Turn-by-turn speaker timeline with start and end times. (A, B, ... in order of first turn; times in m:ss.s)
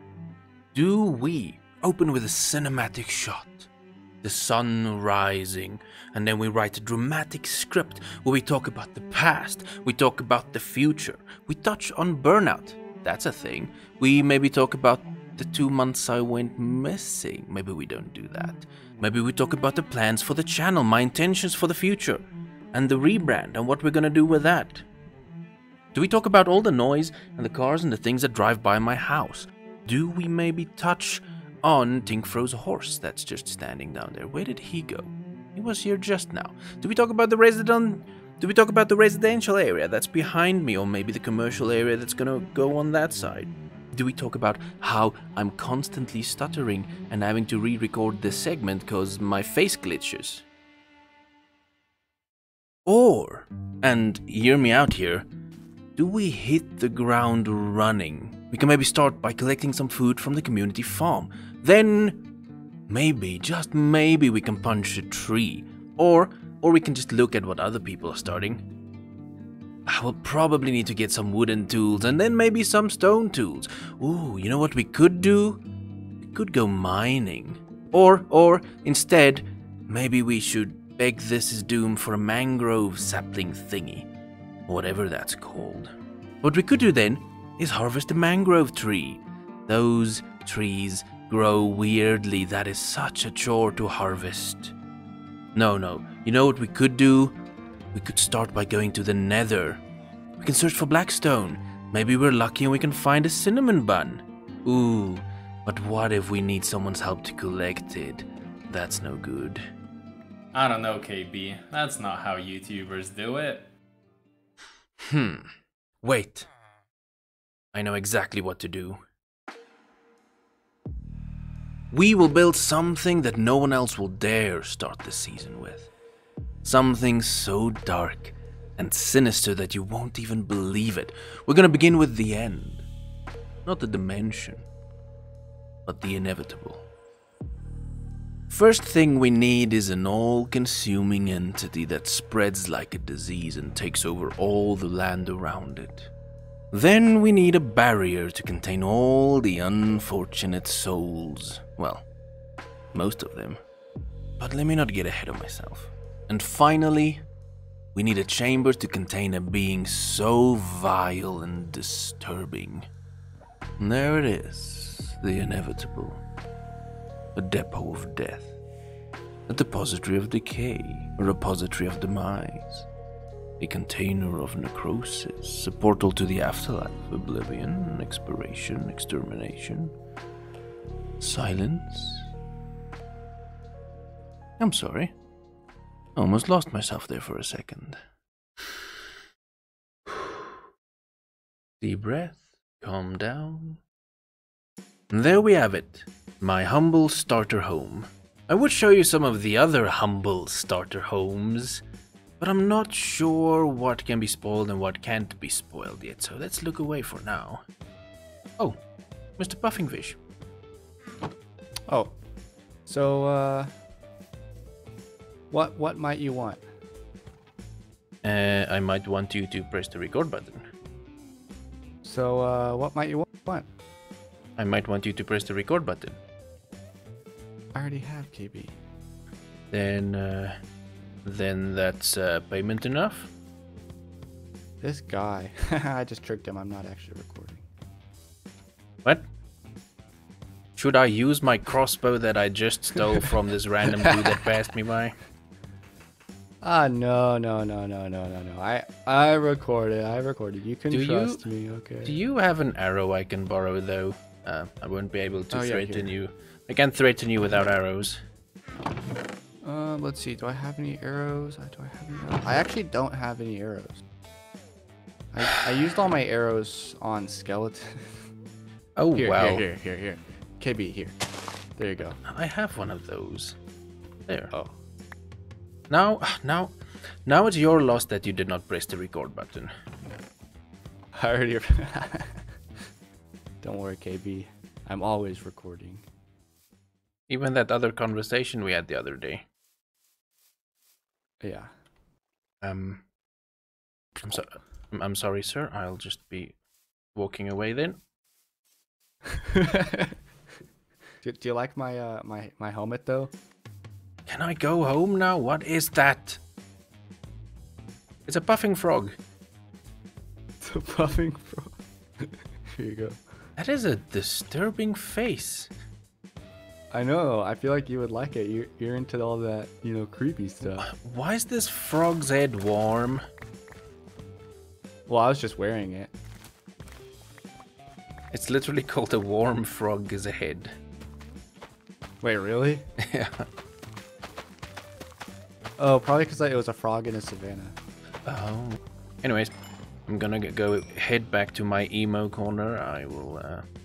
0:00.7-0:03.7 A
0:04.2-0:24.9 A
0:25.9-0:50.5 A
0:52.9-0:55.3 A
0:56.0-1:02.2 A
1:02.9-1:08.6 A
1:09.9-1:15.6 A
1:16.2-1:24.1 A
1:24.7-1:34.8 A
1:35.6-1:37.4 A
1:37.9-1:39.8 A
1:40.4-1:49.6 A
1:50.5-1:53.7 B
1:55.0-1:55.5 A
1:56.0-1:56.5 A
1:57.7-1:59.0 A
2:01.9-2:05.9 A
2:06.6-2:12.9 A
2:13.7-2:14.7 A
2:15.9-2:16.9 A
2:18.5-2:26.1 A
2:26.7-2:32.1 A
2:32.9-2:33.6 A
2:34.4-2:37.2 A
2:38.0-2:42.9 A
2:43.8-2:46.2 A
2:47.4-2:48.6 A
2:49.5-2:52.9 A
2:53.6-2:59.9 A
3:01.2-3:02.3 A
3:04.6-3:05.1 A
3:06.2-3:08.0 A
3:10.1-3:10.4 A
3:11.8-3:13.8 A
3:15.1-3:21.8 A
3:22.4-3:27.6 A
3:29.4-3:30.2 A
3:31.9-3:32.2 C
3:32.9-3:33.7 C
3:35.5-3:36.6 C
3:38.2-3:40.6 A
3:42.0-3:43.7 C
3:44.6-3:46.2 A
3:47.7-3:48.8 C
3:49.7-3:50.6 A
3:51.2-3:53.3 A
3:54.8-3:57.6 C
4:00.8-4:05.2 A
4:06.6-4:12.2 C
4:10.9-4:11.4 A
4:12.0-4:18.2 A
4:15.5-4:16.1 C
4:19.6-4:24.0 C
4:25.3-4:28.3 C
4:29.0-4:29.6 A
4:29.2-4:31.2 C
4:31.8-4:32.2 C
4:32.2-4:33.6 A
4:34.3-4:34.5 A
4:35.9-4:36.8 A
4:37.3-4:39.7 A
4:41.1-4:42.5 C
4:43.6-4:46.0 C
4:47.3-4:49.4 A
4:51.4-4:51.7 C
4:52.6-4:53.0 A
4:54.2-4:56.6 A
4:57.2-4:58.0 A
4:59.5-5:00.1 C
5:01.2-5:03.3 C
5:04.3-5:06.4 A
5:08.3-5:09.2 A
5:10.6-5:13.2 C
5:13.6-5:15.7 A
5:16.9-5:20.9 C
5:20.8-5:23.2 A
5:25.1-5:26.1 C
5:28.3-5:30.8 A
5:32.2-5:32.9 C
5:33.0-5:33.5 A
5:35.8-5:37.8 C
5:38.3-5:39.5 A
5:40.1-5:43.6 A